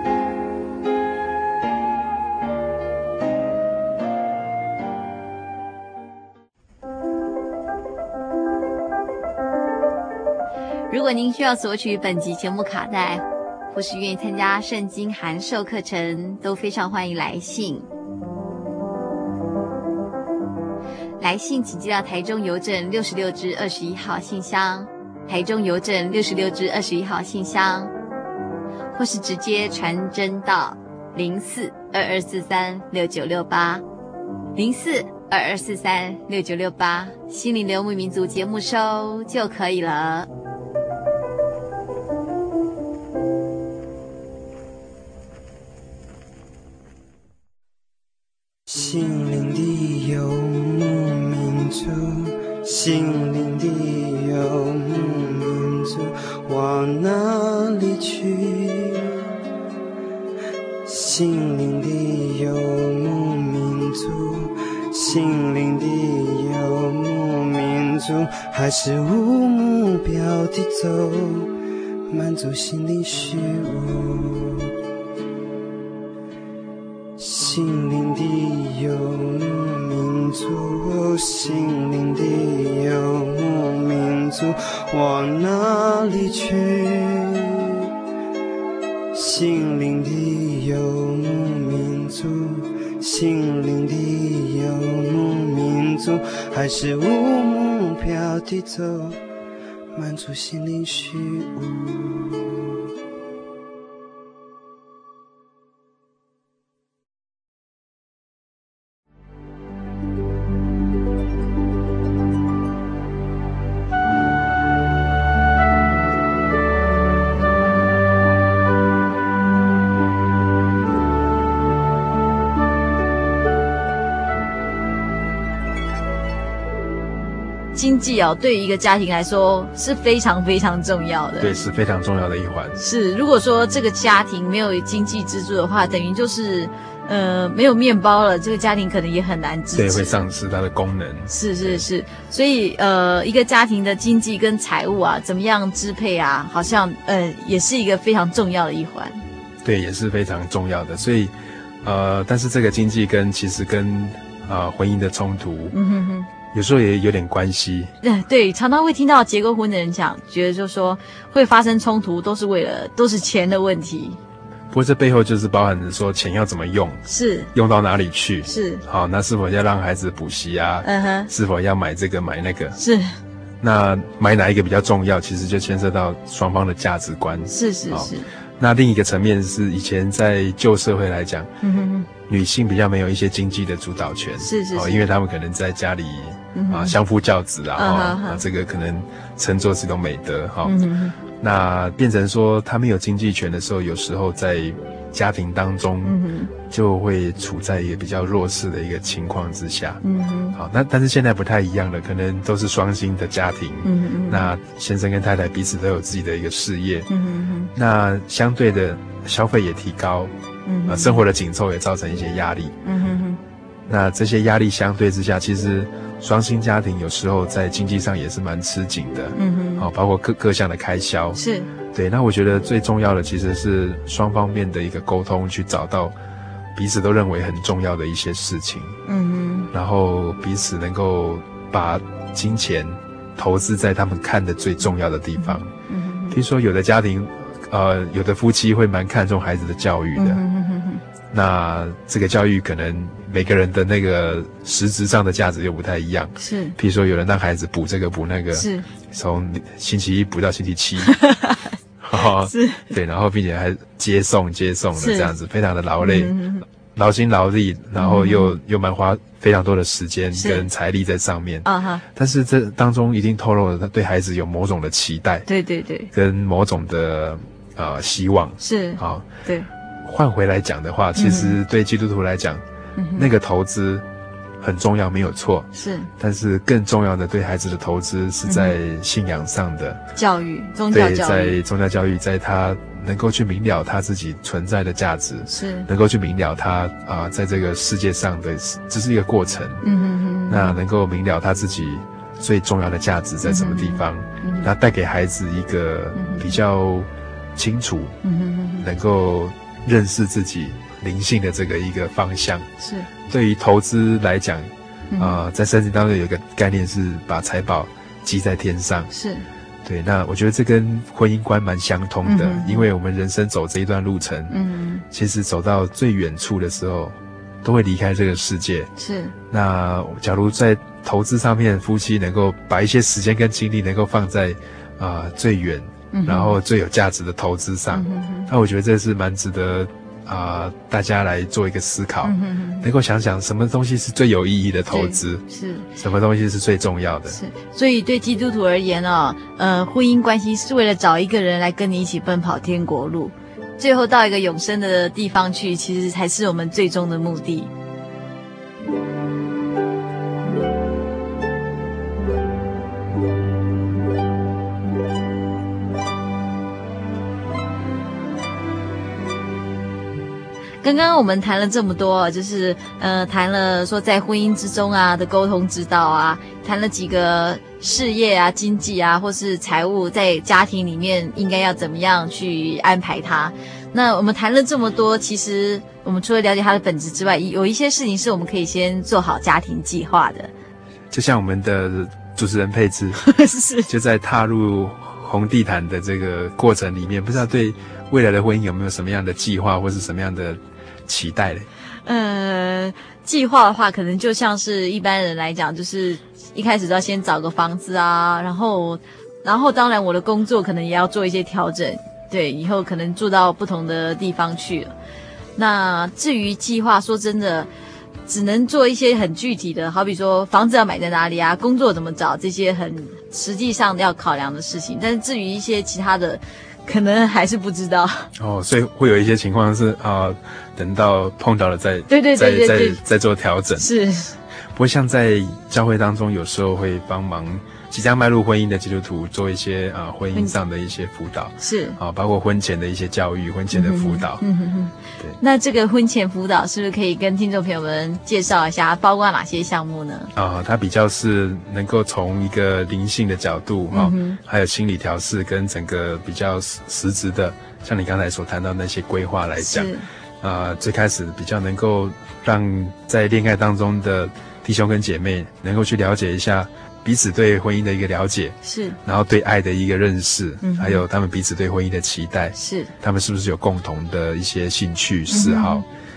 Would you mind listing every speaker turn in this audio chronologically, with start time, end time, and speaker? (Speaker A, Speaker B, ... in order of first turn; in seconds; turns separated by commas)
Speaker A: 10.9-17.9, Speaker A: 21.2-27.9, Speaker A: 28.9-33.8, Speaker A: 34.5-40.3, Speaker B: 48.7-59.1, Speaker B: 60.8-71.5, Speaker B: 72.1-74.7, Speaker B: 77.2-87.5, Speaker B: 89.1-99.2, Speaker B: 99.9-102.5, Speaker A: 127.7-131.5, Speaker C: 131.4-132.8, Speaker A: 132.8-140.2, Speaker C: 139.7-141.8, Speaker A: 141.3-149.2, Speaker C: 149.6-155.8, Speaker A: 155.7-156.2, Speaker C: 156.5-157.9, Speaker A: 158.0-164.2, Speaker C: 164.7-172.8, Speaker A: 167.1-167.5, Speaker A: 168.4-168.8, Speaker A: 170.8-171.3, Speaker A: 172.8-173.1, Speaker C: 173.6-181.5, Speaker A: 177.5-178.2, Speaker A: 181.6-182.1, Speaker C: 182.2-207.1, Speaker A: 184.4-185.0, Speaker A: 186.5-186.9, Speaker A: 187.8-188.4, Speaker A: 190.6-191.1, Speaker A: 196.0-196.5, Speaker A: 200.0-200.6, Speaker A: 203.8-204.4, Speaker A: 207.1-207.7, Speaker C: 207.7-210.3, Speaker A: 210.7-211.2, Speaker C: 210.8-212.8, Speaker A: 212.8-213.4, Speaker C: 213.9-226.2, Speaker A: 219.3-219.8, Speaker A: 221.3-221.7, Speaker C: 226.7-229.0, Speaker A: 229.1-229.7, Speaker C: 229.7-235.7, Speaker A: 235.4-236.3, Speaker C: 236.3-240.4, Speaker A: 240.2-241.0, Speaker C: 241.3-251.2, Speaker A: 246.4-246.7, Speaker A: 248.5-248.8, Speaker A: 251.1-251.6, Speaker C: 252.0-265.5, Speaker A: 252.4-252.9, Speaker A: 254.9-255.3, Speaker A: 256.0-256.6, Speaker A: 258.0-258.5, Speaker A: 260.3-260.7, Speaker A: 261.6-262.0, Speaker A: 265.5-266.1, Speaker C: 266.1-269.4, Speaker A: 268.6-269.7, Speaker C: 270.0-272.6, Speaker A: 271.1-271.6, Speaker A: 273.0-273.3, Speaker C: 273.1-274.1, Speaker C: 274.6-280.0, Speaker A: 275.7-276.1, Speaker A: 278.5-278.7, Speaker A: 280.1-281.6, Speaker C: 280.9-289.9, Speaker A: 285.5-285.9, Speaker A: 289.8-290.8, Speaker C: 290.5-298.2, Speaker A: 293.4-294.7, Speaker A: 296.1-296.5, Speaker A: 298.2-298.9, Speaker C: 298.8-302.7, Speaker A: 302.8-303.1, Speaker C: 303.2-309.1, Speaker A: 305.1-305.4, Speaker A: 309.1-309.4, Speaker C: 309.8-318.9, Speaker A: 312.2-312.8, Speaker A: 314.5-315.0, Speaker A: 319.0-319.3, Speaker C: 319.5-335.4, Speaker A: 326.1-326.6, Speaker A: 327.9-328.5, Speaker A: 332.2-332.9, Speaker A: 334.9-335.9, Speaker C: 335.9-337.4, Speaker A: 337.3-347.7, Speaker A: 360.8-380.5, Speaker C: 381.1-383.3, Speaker A: 383.2-383.9, Speaker C: 383.8-391.7, Speaker A: 392.0-404.9, Speaker A: 405.6-407.7, Speaker A: 408.3-418.3, Speaker C: 418.4-423.9, Speaker A: 422.1-423.0, Speaker A: 423.8-424.4, Speaker C: 424.7-434.4, Speaker A: 431.6-432.0, Speaker A: 433.7-440.3, Speaker C: 440.4-465.9, Speaker A: 443.9-444.4, Speaker A: 449.6-450.0, Speaker A: 458.6-459.0, Speaker A: 460.6-461.0, Speaker A: 462.5-462.9, Speaker A: 465.3-465.8